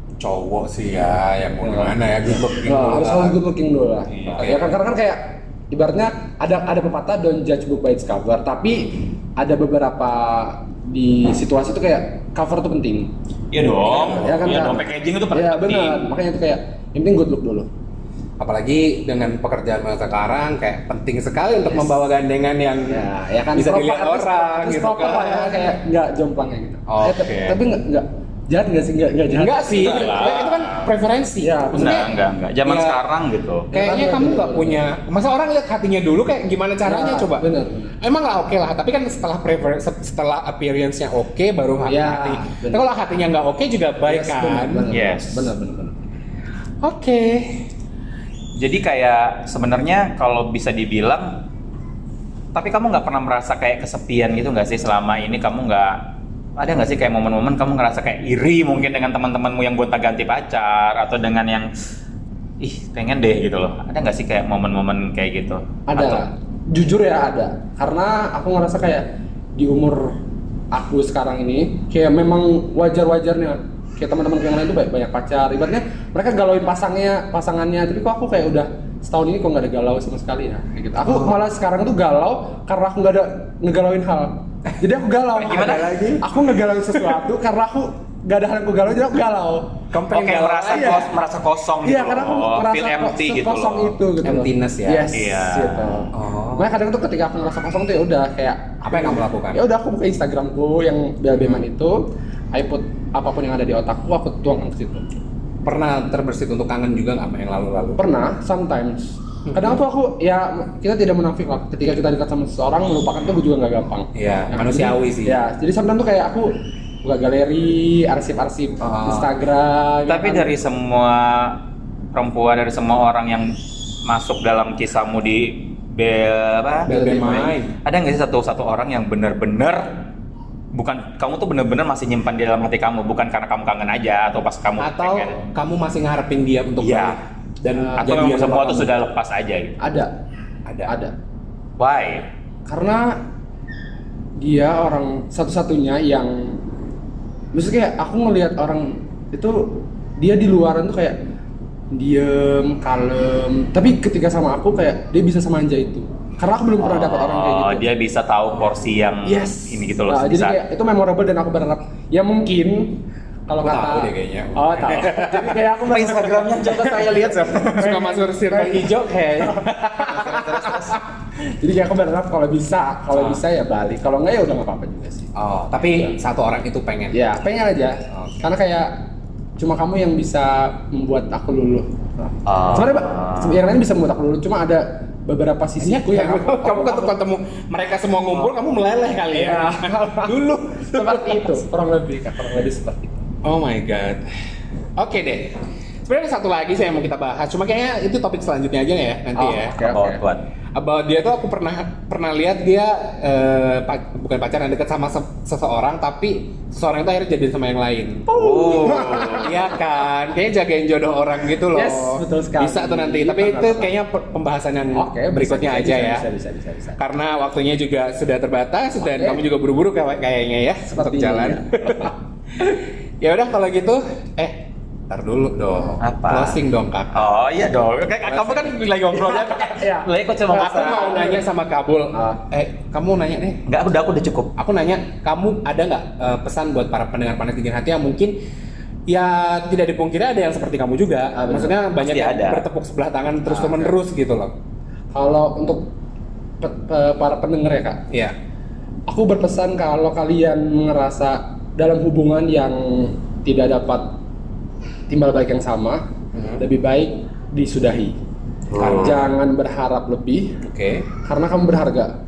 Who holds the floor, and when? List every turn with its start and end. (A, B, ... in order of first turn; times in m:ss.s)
0:00.2-0:03.4 A
0:01.6-0:13.1 B
0:04.2-0:04.5 C
0:04.3-0:04.7 A
0:13.5-0:16.0 C
0:13.8-0:17.7 B
0:13.9-0:14.5 A
0:18.4-0:23.0 A
0:21.7-0:21.9 B
0:22.9-0:30.4 B
0:23.5-0:25.7 A
0:26.9-0:27.6 A
0:29.3-0:33.0 A
0:29.7-0:30.9 C
0:31.4-0:32.0 B
0:31.8-0:33.7 C
0:33.7-0:34.8 B
0:33.7-0:37.5 A
0:36.8-0:37.9 B
0:38.0-0:44.9 A
0:41.9-0:42.8 B
0:44.0-0:46.0 B
0:44.9-0:45.5 C
0:46.8-0:47.6 A
0:48.6-0:51.4 C
0:52.5-1:01.7 C
1:02.6-1:06.2 C
1:05.9-1:10.2 B
1:10.7-1:29.8 B
1:21.0-1:21.4 A
1:25.4-1:26.2 A
1:25.4-1:26.1 C
1:29.9-1:31.1 A
1:30.1-1:34.0 C
1:30.7-1:31.1 B
1:31.8-1:45.0 B
1:34.2-1:35.1 A
1:35.1-1:36.0 C
1:36.1-1:36.7 A
1:38.8-1:39.6 A
1:41.3-1:41.6 A
1:45.6-1:48.0 A
1:48.0-1:56.5 B
1:49.5-1:49.8 A
1:54.1-1:55.4 A
1:57.0-2:00.5 B
1:58.8-1:59.3 A
2:00.1-2:01.6 C
2:02.1-2:06.9 C
2:06.8-2:07.7 A
2:06.9-2:07.6 B
2:07.8-2:09.9 C
2:10.7-2:15.4 C
2:14.8-2:18.9 A
2:16.8-2:17.2 C
2:17.8-2:18.2 B
2:17.9-2:19.8 C
2:19.8-2:20.1 B
2:20.6-2:20.9 A
2:20.8-2:21.1 B
2:21.8-2:22.3 C
2:22.7-2:23.2 B
2:24.4-2:26.6 B
2:27.5-2:31.2 B
2:31.9-2:37.8 B
2:36.8-2:40.6 C
2:38.4-2:38.8 A
2:39.2-2:51.0 B
2:43.6-2:45.6 A
2:45.9-2:48.0 C
2:47.6-2:50.7 A
2:50.1-2:50.9 C
2:51.6-2:56.1 B
2:53.1-2:53.4 A
2:55.3-2:57.2 A
2:57.1-3:07.2 B
2:58.1-2:58.4 A
3:02.4-3:03.6 C
3:05.8-3:11.6 A
3:09.3-3:13.2 B
3:13.4-3:14.3 A
3:15.0-3:19.8 A
3:19.3-3:20.2 B
3:19.8-3:20.4 C
3:20.7-3:28.4 A
3:28.3-3:29.7 B
3:28.3-3:29.6 C
3:29.4-3:36.3 A
3:31.7-3:33.9 B
3:34.9-3:37.0 B
3:37.0-3:47.4 A
3:39.0-3:39.4 B
3:40.9-3:42.1 B
3:46.0-3:46.6 C
3:47.1-3:51.2 C
3:48.3-3:51.5 B
3:50.5-3:53.6 A
3:52.1-3:52.4 B
3:53.7-3:54.5 C
3:54.6-3:58.3 A
3:59.1-4:04.5 A
4:01.3-4:01.7 B
4:01.9-4:02.6 C
4:03.4-4:03.9 B
4:05.1-4:05.9 B
4:06.6-4:08.0 B
4:08.1-4:08.3 A
4:09.1-4:14.1 B
4:15.1-4:16.0 B
4:16.3-4:16.6 A
4:16.6-4:18.2 B
4:18.7-4:19.3 C
4:18.8-4:20.6 B
4:18.8-4:19.1 A
4:20.6-4:21.0 A
4:21.2-4:22.1 B